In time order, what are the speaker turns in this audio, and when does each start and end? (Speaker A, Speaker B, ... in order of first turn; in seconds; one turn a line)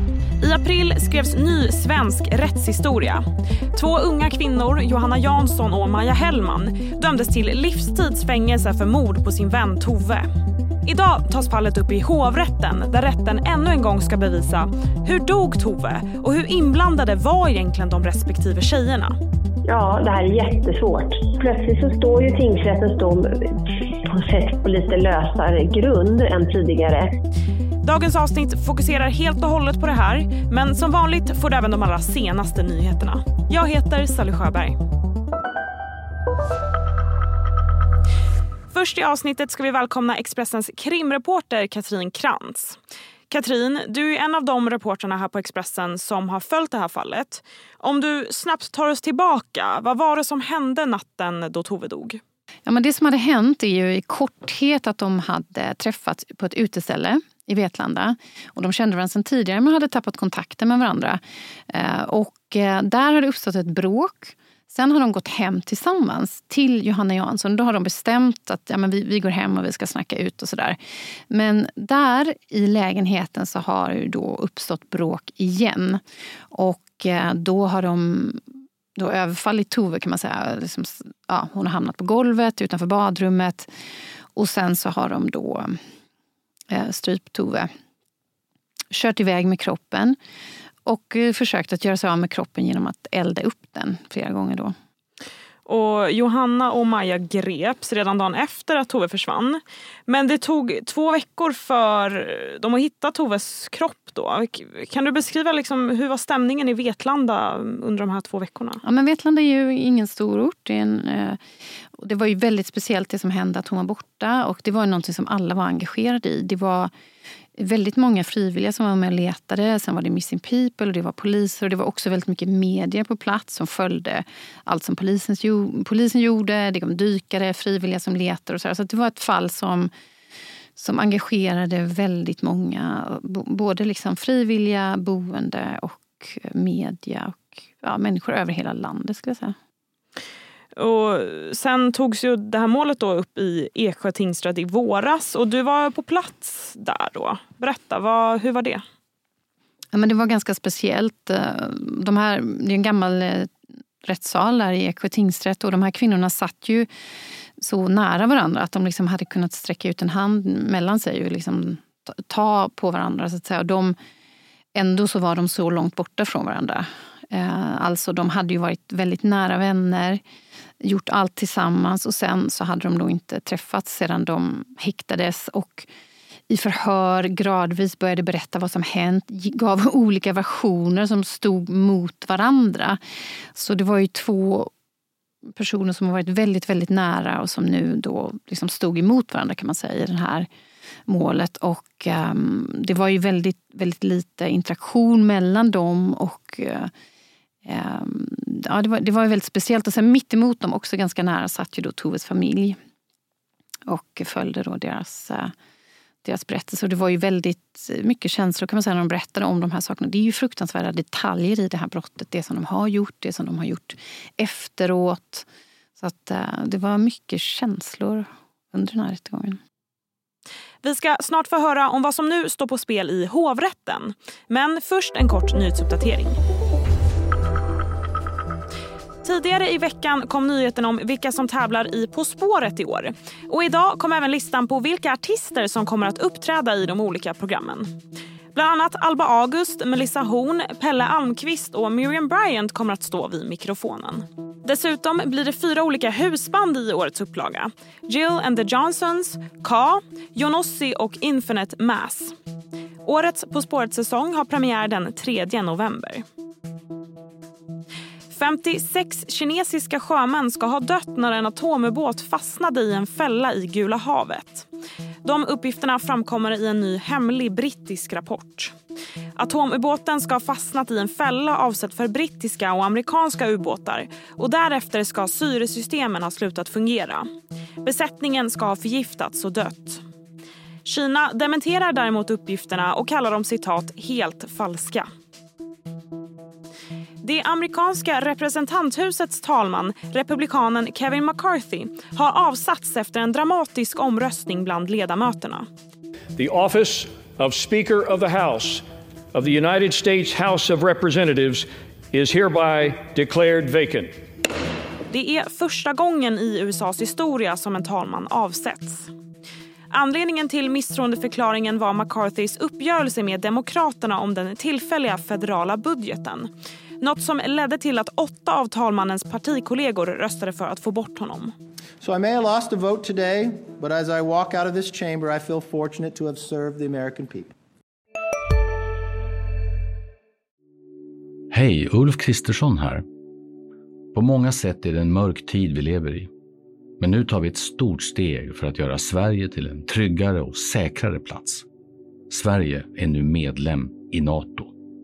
Speaker A: 0.4-10.3
Speaker A: 10.8-19.1
Speaker B: 19.6-23.5
Speaker B: 24.1-27.1
Speaker A: 27.8-34.8
Speaker A: 38.7-42.8
Speaker A: 43.3-52.2
Speaker C: 52.6-70.8
Speaker C: 71.3-76.0
Speaker C: 76.5-78.4
Speaker C: 79.0-83.7
Speaker C: 84.3-85.8
Speaker C: 86.7-87.7
Speaker C: 88.9-90.2
Speaker C: 90.8-94.7
Speaker A: 95.6-108.8
Speaker C: 108.8-111.4
Speaker C: 112.0-116.9
Speaker C: 117.6-129.9
Speaker C: 130.8-139.5
Speaker A: 140.8-148.8
Speaker C: 149.9-153.5
Speaker C: 154.0-156.9
Speaker C: 157.6-163.9
Speaker C: 164.7-170.2
Speaker C: 170.8-175.9
Speaker C: 176.5-183.0
Speaker C: 183.5-184.7
Speaker C: 185.6-190.5
Speaker C: 191.1-196.9
Speaker C: 197.6-202.8
Speaker C: 203.8-205.5
Speaker C: 206.2-215.4
Speaker C: 216.0-219.6
Speaker A: 220.8-226.4
Speaker A: 229.2-237.9
Speaker A: 238.5-252.3
Speaker A: 253.0-256.2
Speaker A: 258.3-264.7
Speaker A: 265.2-268.7
Speaker A: 269.4-277.3
Speaker A: 277.8-280.0
Speaker A: 280.8-285.1
Speaker A: 287.2-295.7
Speaker D: 296.4-304.2
Speaker A: 305.1-309.1
Speaker A: 309.9-316.5
Speaker A: 317.0-321.5
Speaker E: 322.0-327.5
Speaker F: 331.5-333.1
Speaker F: 334.1-336.3
Speaker F: 337.0-341.6
Speaker F: 342.3-344.7